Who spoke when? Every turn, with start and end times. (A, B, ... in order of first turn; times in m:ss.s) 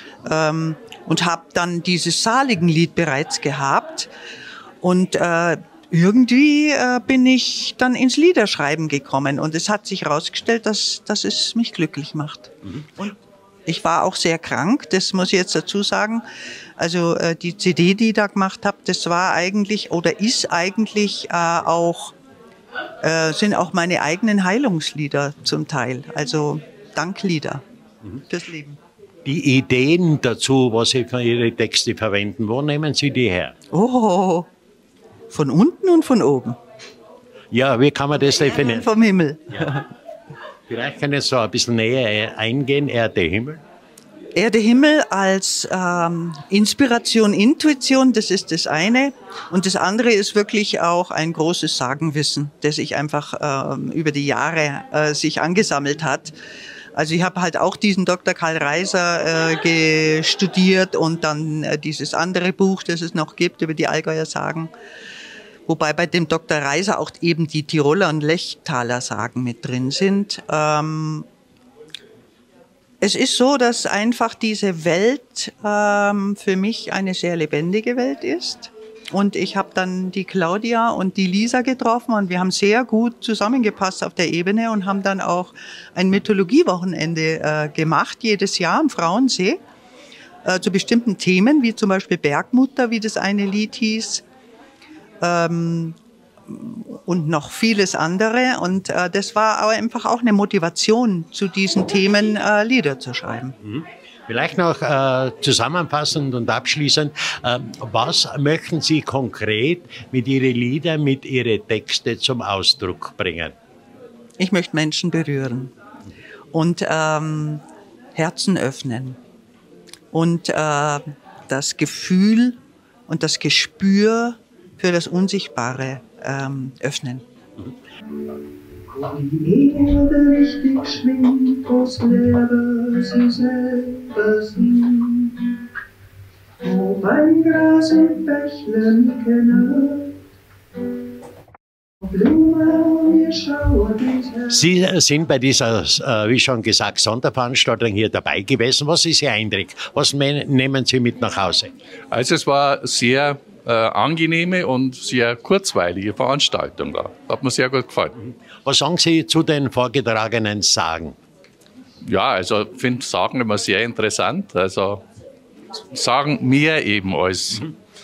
0:00.2-0:04.1 A
0:04.8-0:13.2 A
0:13.7-0:16.2 A
0:16.8-0:22.2 A
0:23.0-0:27.6 A
0:28.3-0:28.8 A
0:29.2-0:33.5 B
0:33.7-0:34.5 A
0:35.3-0:36.6 A
0:37.5-0:38.9 B
0:38.3-0:39.8 A
0:40.7-0:43.6 B
0:44.4-0:56.4 A
0:57.0-1:04.7 A
1:05.7-1:11.3 A
1:13.0-1:29.6 A
1:30.5-1:34.2 A
1:35.2-1:36.0 A
1:36.5-1:43.5 A
1:43.6-1:53.6 B
1:54.4-1:55.7 A
1:56.5-1:57.6 A
1:58.2-1:59.2 A
2:00.1-2:07.2 A
2:08.9-2:15.4 C
2:16.6-2:20.2 C
2:22.0-2:24.6 C
2:24.5-2:31.7 B
2:32.4-2:33.2 D
2:34.0-2:38.0 D
2:38.2-2:41.2 B
2:42.2-2:44.9 D
2:46.2-2:47.4 D